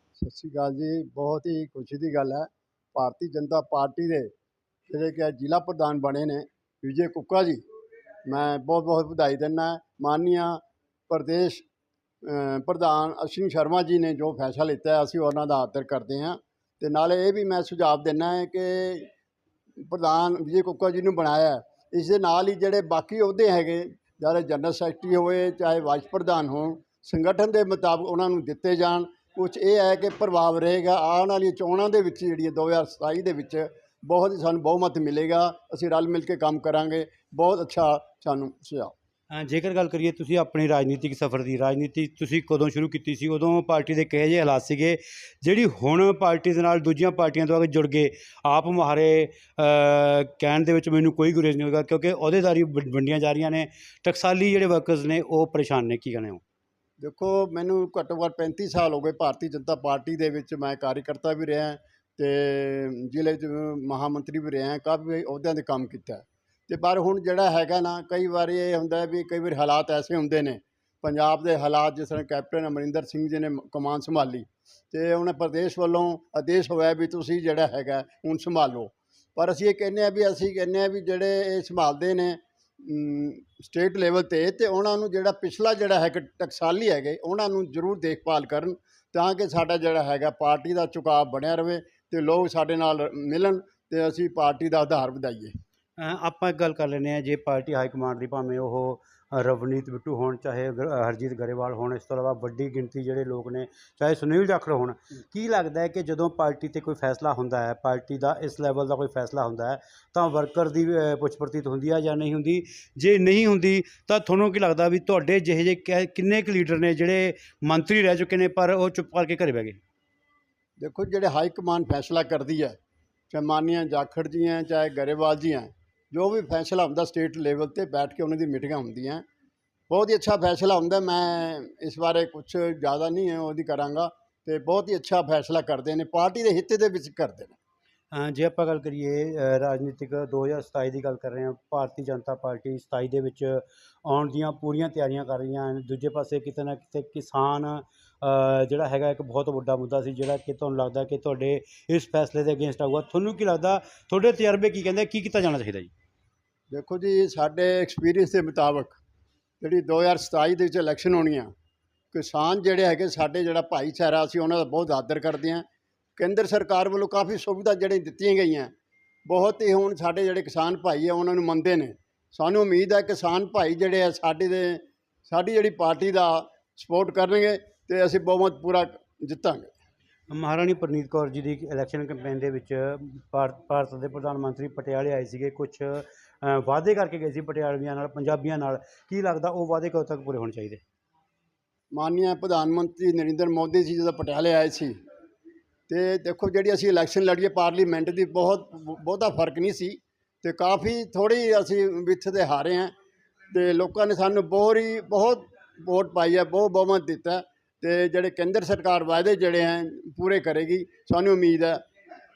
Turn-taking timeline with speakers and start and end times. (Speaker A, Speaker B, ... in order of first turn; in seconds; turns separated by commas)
Speaker A: 0.2-4.3, Speaker A: 4.9-7.6, Speaker A: 8.2-11.6, Speaker A: 12.2-19.1, Speaker A: 19.8-38.9, Speaker B: 39.3-56.4, Speaker A: 57.0-95.5, Speaker B: 96.0-119.8, Speaker A: 120.8-122.8, Speaker A: 123.3-129.2, Speaker A: 129.9-137.6, Speaker B: 138.1-155.9, Speaker A: 156.7-159.0, Speaker A: 159.6-161.5, Speaker A: 162.1-165.6, Speaker A: 166.2-168.7, Speaker A: 169.3-179.7, Speaker B: 180.3-190.8, Speaker A: 191.9-194.9, Speaker A: 195.9-202.9, Speaker A: 203.5-211.8